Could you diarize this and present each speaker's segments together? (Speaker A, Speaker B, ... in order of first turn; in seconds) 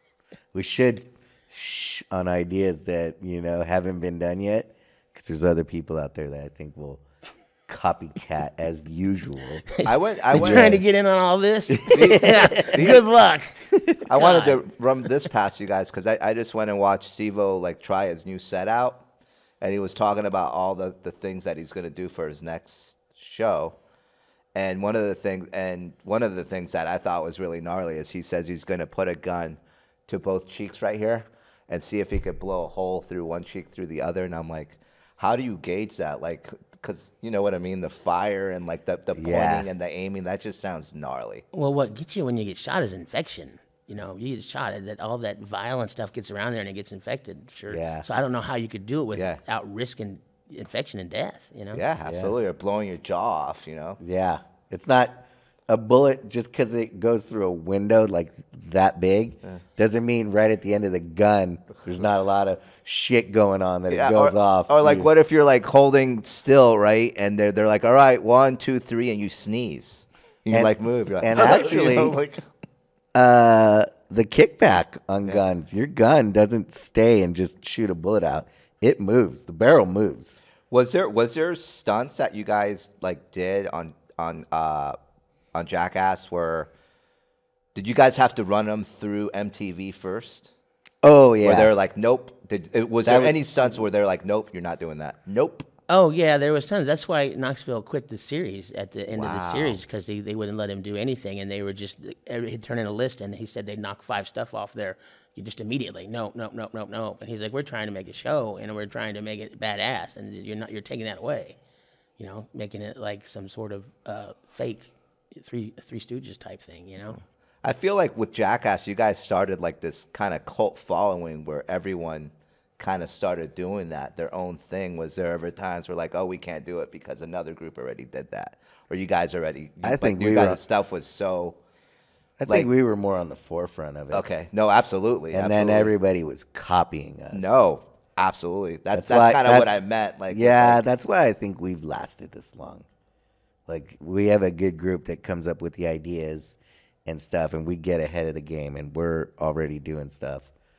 Speaker A: 0.5-7.0, 7.7-9.7, 10.3-10.8, 11.7-12.7, 39.1-39.7, 47.7-48.0, 52.0-52.3, 54.0-65.1, 70.5-72.2, 73.1-80.4, 91.0-91.7, 93.0-93.4, 129.8-130.6, 132.4-134.3, 135.3-137.5, 138.9-139.8, 140.3-142.8, 143.7-150.5
Speaker B: 9.8-13.6, 14.1-14.6, 41.5-51.8, 95.9-111.6, 112.2-117.2
Speaker C: 9.8-10.8, 11.9-13.0, 14.1-19.0, 19.6-23.8, 24.5-41.4, 51.7-54.0, 63.9-72.4, 80.7-85.0, 85.5-86.7, 87.7-90.5, 91.4-95.7, 99.1-99.8, 117.6-131.6, 134.1-135.9, 137.3-140.8